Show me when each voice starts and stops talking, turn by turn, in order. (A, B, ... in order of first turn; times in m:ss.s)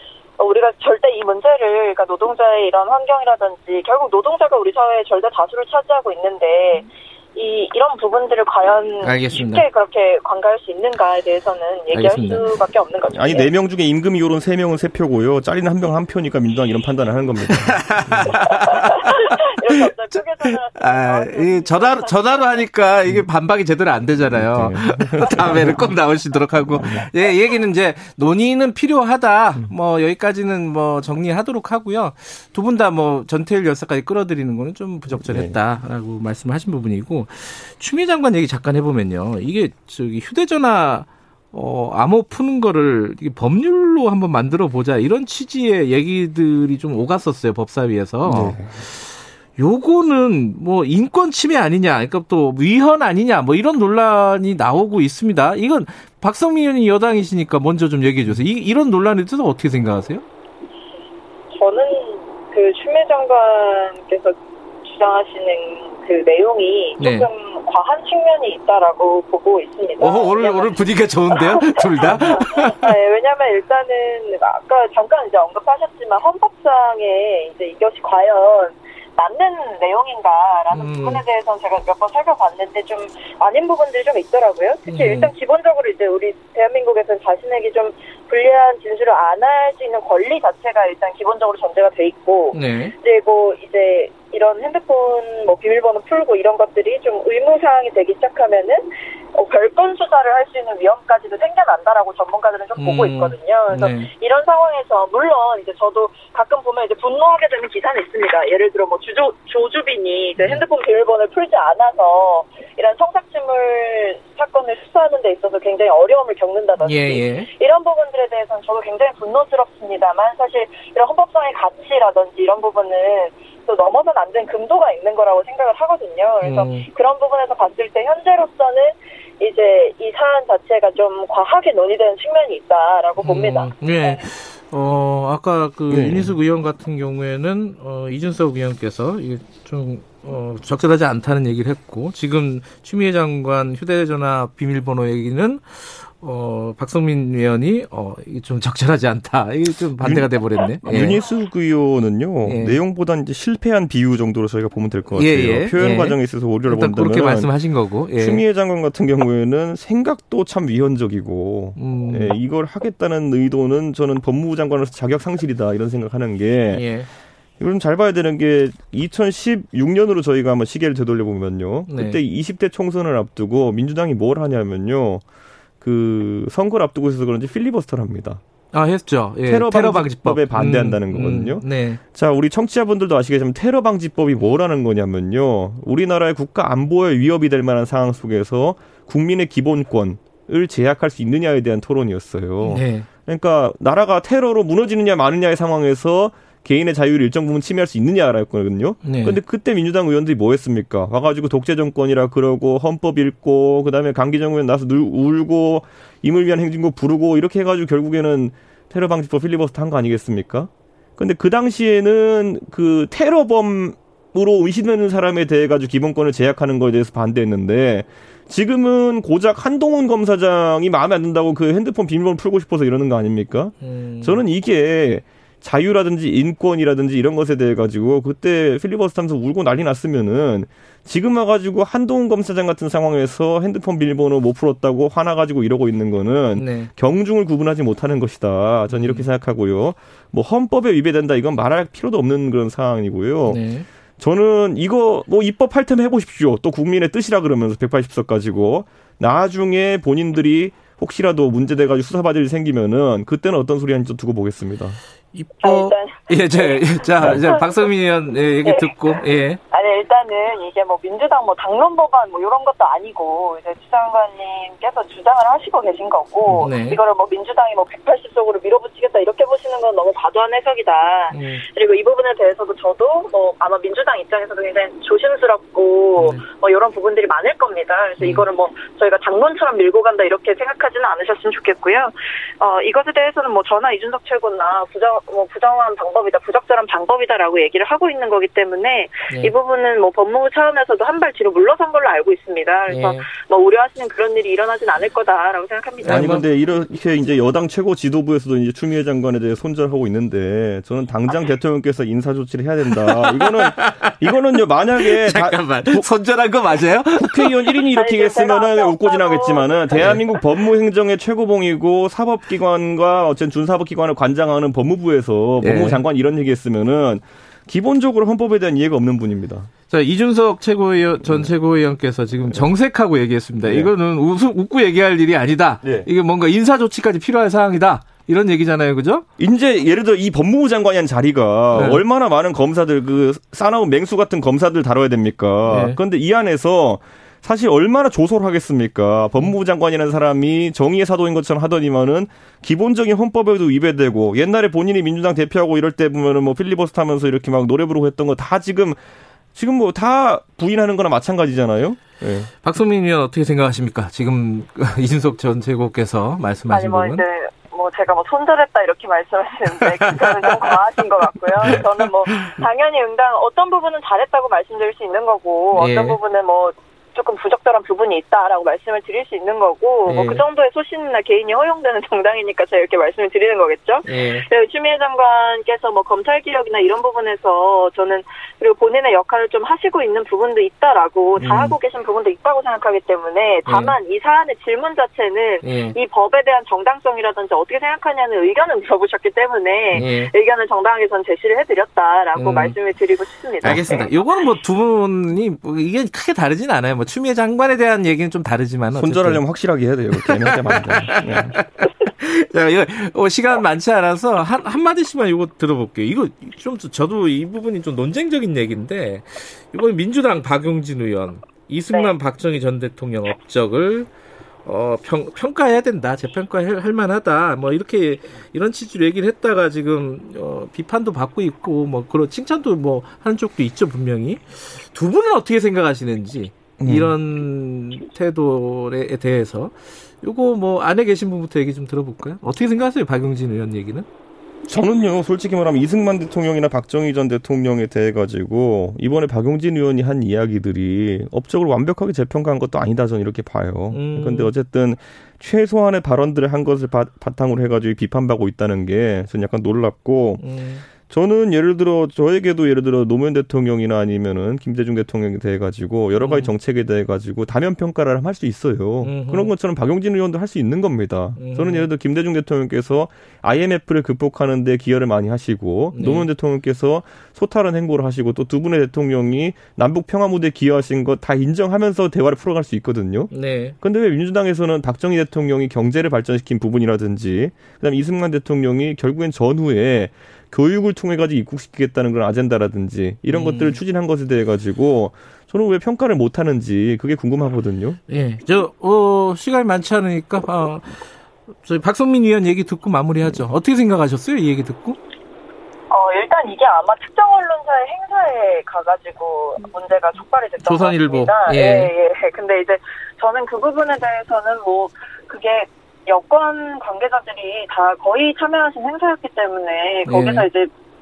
0:00.4-0:13.5 A
0:09.0-0:09.6 B
0:11.9-0:12.4 B
0:13.1-0:18.4 C
0:17.5-1:00.2 B
0:18.5-0:22.6 A
0:24.2-0:25.9 C
0:26.7-0:27.0 C
0:35.2-0:35.6 C
0:48.2-0:48.8 C
1:01.5-2:14.2 A
1:07.0-1:07.3 B
1:10.0-1:12.9 B
1:20.7-1:21.2 B
1:24.9-1:25.3 B
1:32.5-1:32.9 B
1:42.8-1:44.1 B
1:50.4-1:50.6 B
1:56.8-1:57.5 B
2:06.4-2:06.9 B
2:13.2-2:31.2 B
2:15.9-2:16.3 C
2:30.0-2:37.5 C
2:32.4-2:32.8 B
2:35.1-2:38.4 B
2:38.1-2:47.0 C
2:41.8-2:42.4 B
2:46.7-2:47.1 B
2:47.6-2:55.2 C
2:51.9-2:52.2 B
2:55.8-2:58.4 C
2:58.7-3:02.0 B
2:59.4-4:03.6 C
3:12.6-3:13.0 B
3:19.0-3:19.4 B
3:43.8-3:44.4 B
3:56.6-3:56.9 B
3:58.9-3:59.3 B
4:03.4-4:03.8 B
4:04.2-4:15.0 C
4:15.3-4:19.6 B
4:15.6-4:17.9 A
4:18.6-4:56.4 A
4:26.6-4:27.0 B
4:31.3-4:31.6 B
4:36.2-4:36.4 B
4:38.2-4:38.4 B
4:52.9-4:53.3 B
4:56.0-4:56.4 B
4:56.0-5:06.1 C
5:03.0-5:04.3 B
5:05.0-5:07.6 B
5:07.2-5:19.7 C
5:07.9-5:10.2 A
5:15.6-5:16.0 B
5:19.9-5:29.2 B
5:21.2-5:21.5 C
5:23.6-5:23.9 C
5:25.8-5:26.1 C
5:29.4-5:49.0 C
5:31.7-5:32.0 B
5:35.6-5:36.0 B
5:49.5-5:52.5 C
5:52.6-5:57.2 B
5:56.7-6:34.2 A
5:59.9-6:00.8 B
6:01.6-6:02.5 B
6:05.7-6:06.2 B
6:10.0-6:10.4 B
6:14.0-6:14.4 B
6:21.4-6:21.7 B
6:23.6-6:23.9 B
6:25.6-6:25.9 B
6:29.9-6:30.3 B
6:32.3-6:32.7 B
6:33.6-6:39.4 B
6:38.9-6:41.6 C
6:40.2-6:54.1 B
6:54.6-7:14.0 B
7:06.8-7:07.1 C
7:14.7-7:30.4 C
7:23.9-7:24.5 B
7:30.4-7:30.8 B
7:31.0-8:08.0 C
7:36.2-7:36.5 B
7:39.0-7:39.5 B
7:41.4-7:41.9 B
7:45.9-7:46.3 B
7:53.3-7:53.8 B
8:03.3-8:03.8 B
8:08.1-8:11.0 B
8:11.6-8:15.0 B
8:15.9-8:30.7 A
8:20.6-8:21.9 B
8:30.0-8:30.4 B